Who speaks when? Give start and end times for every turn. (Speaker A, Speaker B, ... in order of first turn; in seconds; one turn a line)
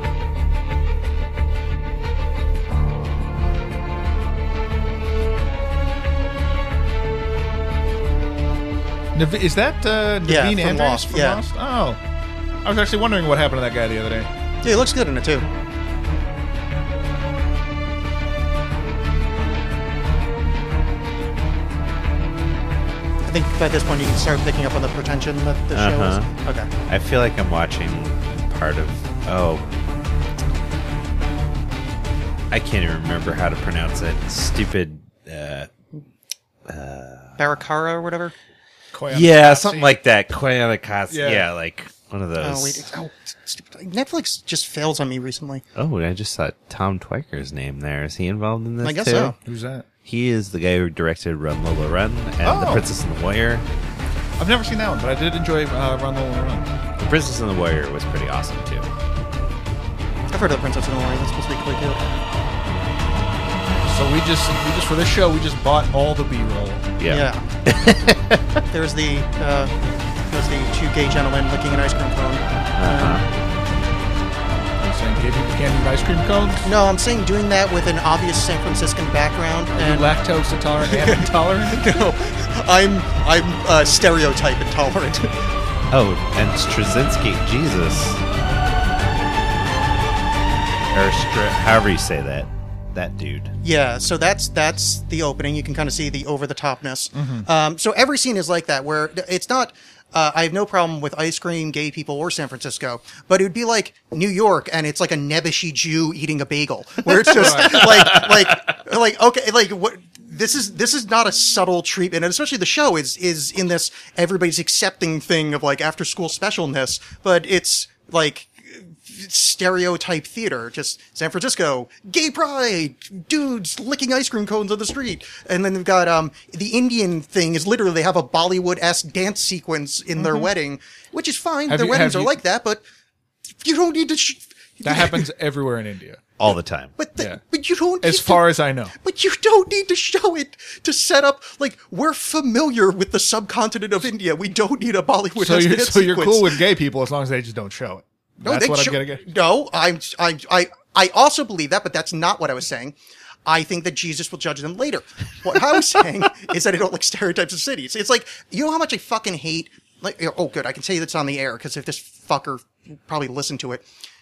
Speaker A: 9.1-12.0
Speaker B: 10.2-11.4
Speaker A: 12.6-14.3
Speaker B: 14.6-15.4
Speaker B: 23.2-26.7
Speaker C: 25.7-26.3
Speaker C: 26.9-29.8
Speaker C: 32.5-35.7
Speaker C: 36.6-37.6
Speaker B: 37.4-38.3
Speaker A: 38.9-39.9
Speaker C: 39.1-42.9
Speaker A: 41.1-41.5
Speaker B: 42.4-45.6
Speaker C: 45.8-49.4
Speaker B: 48.8-49.4
Speaker A: 49.4-49.9
Speaker C: 50.0-53.6
Speaker A: 52.4-52.9
Speaker A: 54.4-56.7
Speaker C: 57.0-58.9
Speaker B: 60.3-62.1
Speaker A: 63.9-66.9
Speaker C: 67.0-68.6
Speaker B: 67.1-67.4
Speaker B: 68.7-73.2
Speaker C: 72.8-73.3
Speaker A: 74.8-76.7
Speaker B: 76.6-80.1
Speaker A: 79.8-82.1
Speaker B: 80.8-85.4
Speaker C: 85.9-88.2
Speaker C: 90.9-93.5
Speaker B: 93.6-132.8
Speaker A: 97.1-97.5
Speaker A: 107.3-108.1
Speaker C: 107.6-108.6
Speaker A: 130.2-130.5
Speaker A: 131.7-132.4
Speaker B: 133.6-135.3
Speaker A: 134.8-136.3
Speaker C: 136.4-136.9
Speaker B: 137.0-146.6
Speaker A: 137.2-137.4
Speaker A: 138.0-138.9
Speaker A: 145.4-149.3
Speaker B: 148.4-152.9
Speaker B: 153.5-163.8